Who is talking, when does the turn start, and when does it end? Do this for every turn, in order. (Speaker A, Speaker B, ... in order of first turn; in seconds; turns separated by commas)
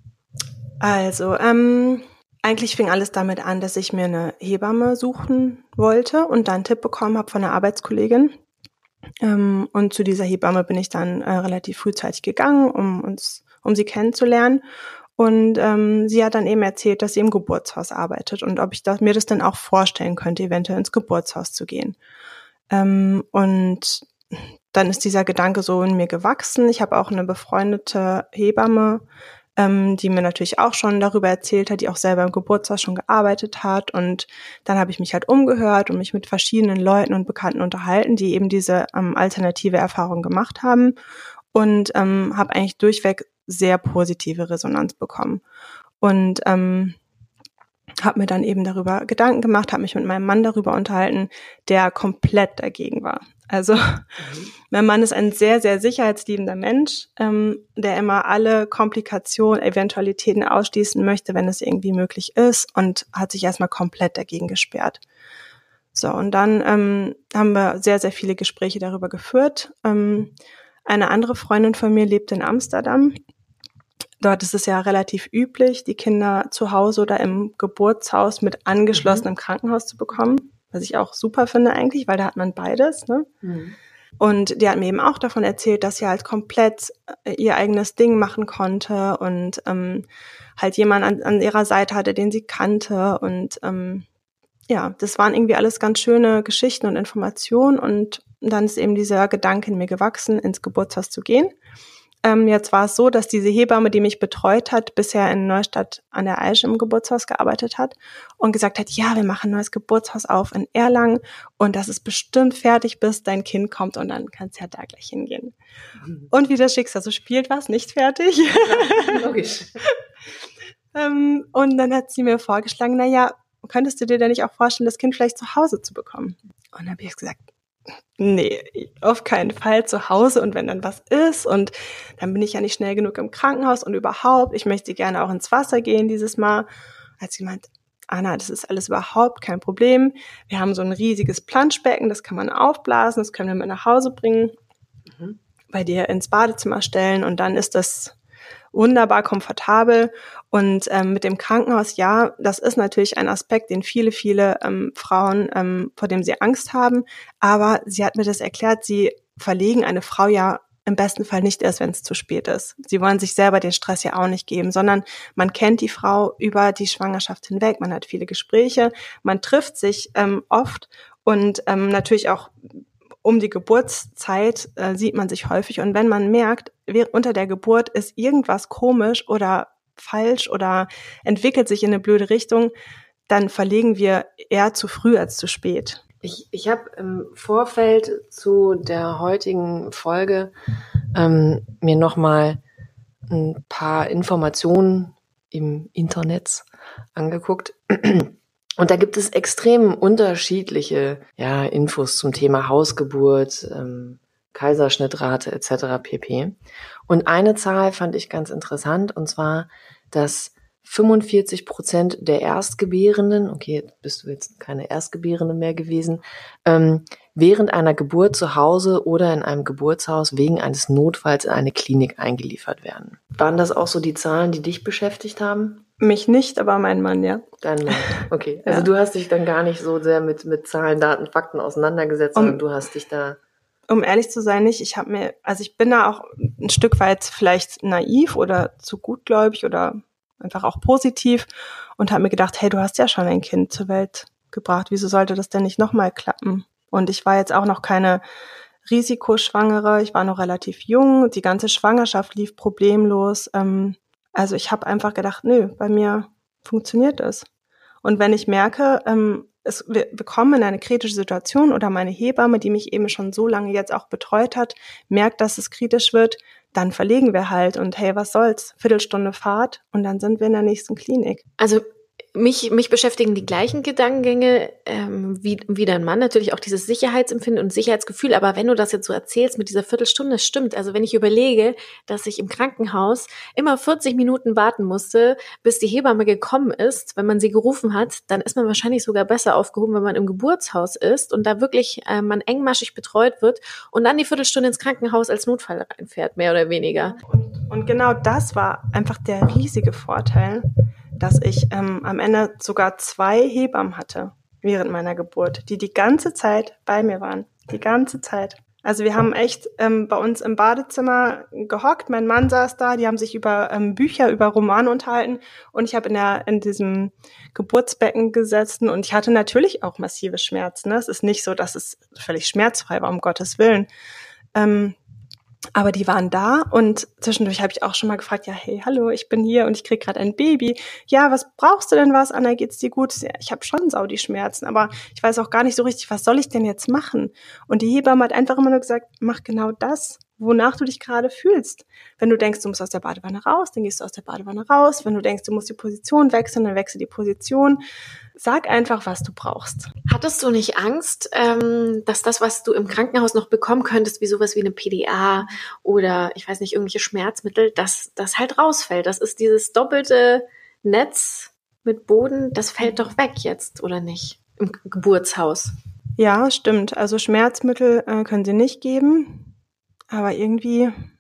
Speaker A: 0.8-8.3, Speaker A: 9.2-14.6, Speaker A: 15.2-22.0, Speaker A: 22.7-24.1, Speaker A: 24.7-29.0, Speaker A: 29.6-41.0, Speaker A: 41.5-45.4, Speaker A: 46.0-47.0, Speaker A: 48.0-54.1, Speaker B: 54.2-54.5, Speaker A: 54.7-65.0, Speaker A: 65.9-70.3, Speaker A: 70.9-73.2, Speaker A: 74.2-83.3, Speaker B: 78.9-79.3, Speaker B: 83.4-83.8, Speaker A: 84.2-90.1, Speaker A: 90.6-94.1, Speaker A: 94.7-101.5, Speaker A: 102.2-115.5, Speaker A: 116.3-119.3, Speaker B: 118.5-119.8, Speaker A: 120.9-127.5, Speaker A: 128.2-136.7, Speaker A: 137.2-144.5, Speaker B: 145.1-145.4, Speaker A: 145.7-148.1, Speaker A: 148.7-172.6, Speaker A: 173.2-182.7, Speaker A: 183.3-186.0, Speaker B: 186.2-190.5, Speaker B: 191.2-192.6, Speaker B: 193.3-206.6, Speaker B: 207.1-225.8, Speaker A: 226.0-228.9, Speaker B: 227.6-233.4, Speaker A: 232.3-232.6, Speaker A: 233.9-241.5, Speaker A: 242.0-248.2, Speaker A: 248.9-257.5, Speaker A: 258.0-271.4, Speaker C: 271.6-297.2, Speaker A: 297.2-323.9, Speaker A: 324.6-325.0, Speaker A: 325.8-347.8, Speaker A: 348.4-349.9, Speaker C: 350.1-365.7, Speaker A: 366.2-369.5, Speaker A: 370.1-370.9